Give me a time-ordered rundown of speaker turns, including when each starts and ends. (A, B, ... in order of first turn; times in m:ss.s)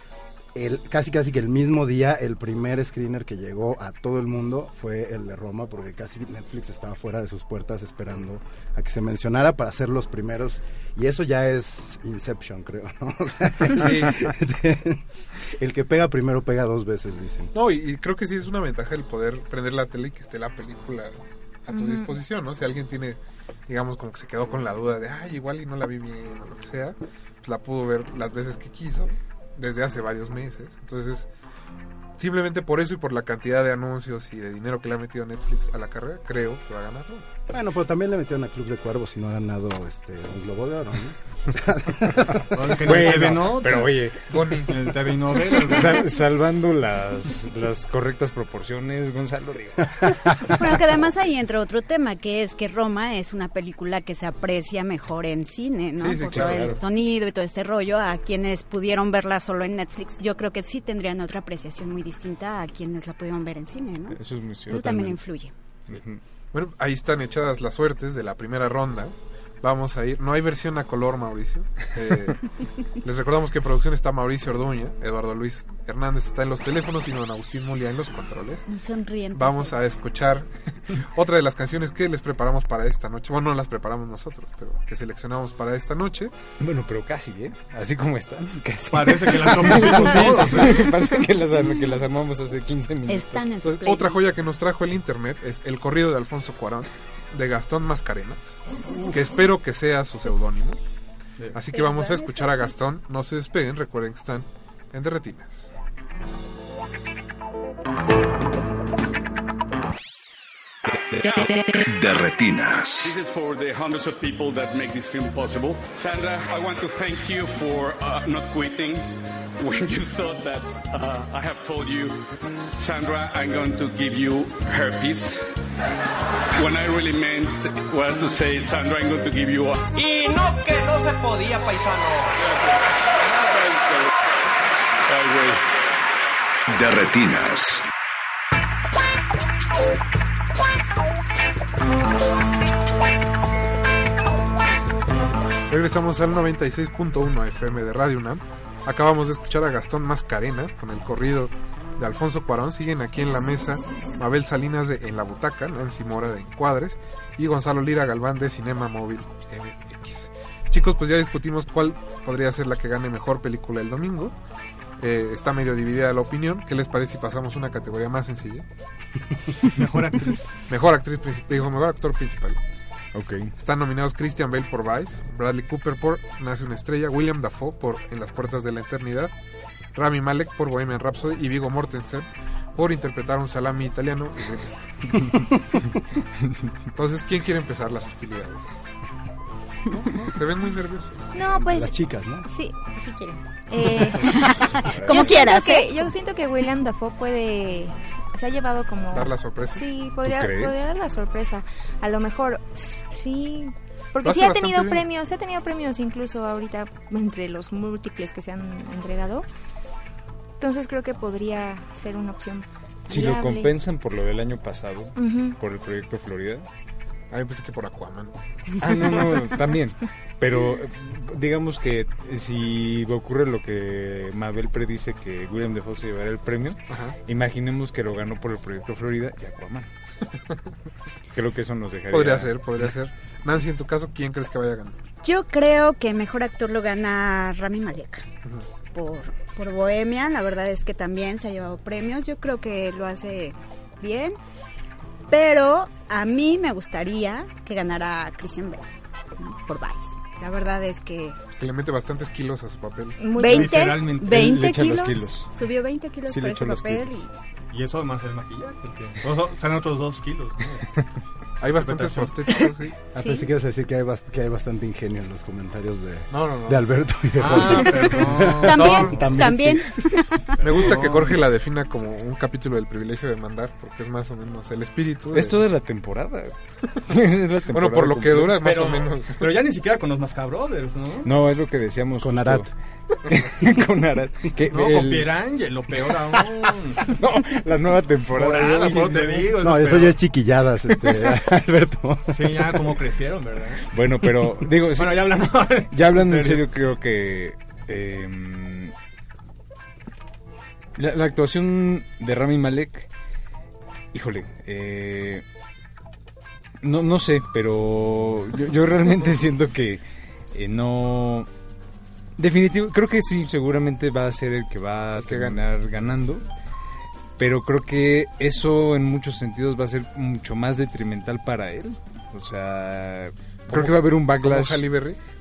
0:00.6-0:17.5 A
0:13.7-0:14.3 B
0:17.5-0:31.3 B
0:21.7-0:22.2 C
0:32.2-0:37.3 B
0:37.5-0:42.6 A
0:42.5-0:44.1 D
0:42.8-0:44.6 E
0:44.3-0:44.9 B
0:44.7-0:46.2 D
0:45.5-0:50.8 E
0:50.4-1:05.5 F
0:56.0-0:56.8 B
0:56.3-0:56.8 E
1:04.1-1:05.2 E
1:05.9-1:06.2 E
1:06.5-1:12.4 B
1:13.0-1:18.6 B
1:18.7-1:19.8 F
1:19.3-1:26.3 B
1:26.6-1:33.5 E
1:28.9-1:31.0 D
1:33.1-1:34.3 F
1:33.6-1:40.8 B
1:41.5-1:45.7 B
1:41.7-1:42.8 F
1:51.2-1:53.2 G
1:51.2-1:51.5 H
1:53.0-2:05.4 H
2:06.5-2:09.9 H
2:09.9-2:12.4 I
2:15.1-2:15.6 H
2:16.7-2:17.9 G
2:25.7-2:44.3 B
2:45.0-2:48.6 B
2:49.7-2:50.6 D
2:50.7-2:52.6 B
2:53.1-2:53.5 E
2:53.6-2:59.3 B
2:59.9-3:04.7 B
3:06.9-3:08.6 B
3:10.3-3:11.3 B
3:11.3-3:29.4 C
3:11.4-3:12.5 A
3:13.8-3:16.0 F
3:15.0-3:15.3 E
3:19.1-3:19.9 B
3:20.2-3:20.8 E
3:24.2-3:25.1 B
3:30.6-3:33.8 C
3:33.1-3:36.7 E
3:35.2-3:35.6 C
3:37.3-3:38.4 B
3:38.8-3:49.9 E
3:46.9-3:47.2 B
3:51.3-3:52.6 E
3:52.1-3:55.0 B
3:55.2-3:58.3 F
3:58.8-4:04.4 F
4:05.3-4:08.9 F
4:09.4-4:11.4 F
4:11.6-4:13.2 B
4:13.2-4:14.0 C
4:13.3-4:17.3 F
4:13.4-4:14.5 D
4:14.2-4:15.5 E
4:16.3-4:17.2 E
4:17.7-4:20.9 D
4:21.6-4:23.1 B
4:21.8-4:22.6 D
4:23.1-4:29.9 A
4:26.3-4:26.8 B
4:27.4-4:29.1 D
4:28.6-4:30.6 F
4:28.8-4:29.2 B
4:30.6-4:35.6 B
4:30.7-4:31.4 D
4:35.3-4:36.6 E
4:37.1-4:38.6 E
4:37.7-4:39.6 B
4:38.6-4:41.3 D
4:41.2-4:42.7 E
4:42.2-4:42.7 A
4:43.3-4:45.3 E
4:44.7-4:47.1 D
4:47.0-4:49.5 E
4:48.3-4:50.2 D
4:49.6-4:52.7 A
4:52.3-4:53.9 D
4:53.9-4:58.9 E
4:54.9-4:56.6 D
5:01.0-5:03.1 E
5:04.1-5:05.4 E
5:06.8-5:11.5 E
5:12.4-5:16.4 E
5:15.2-5:15.6 B
5:17.4-5:24.9 E
5:23.7-5:25.2 B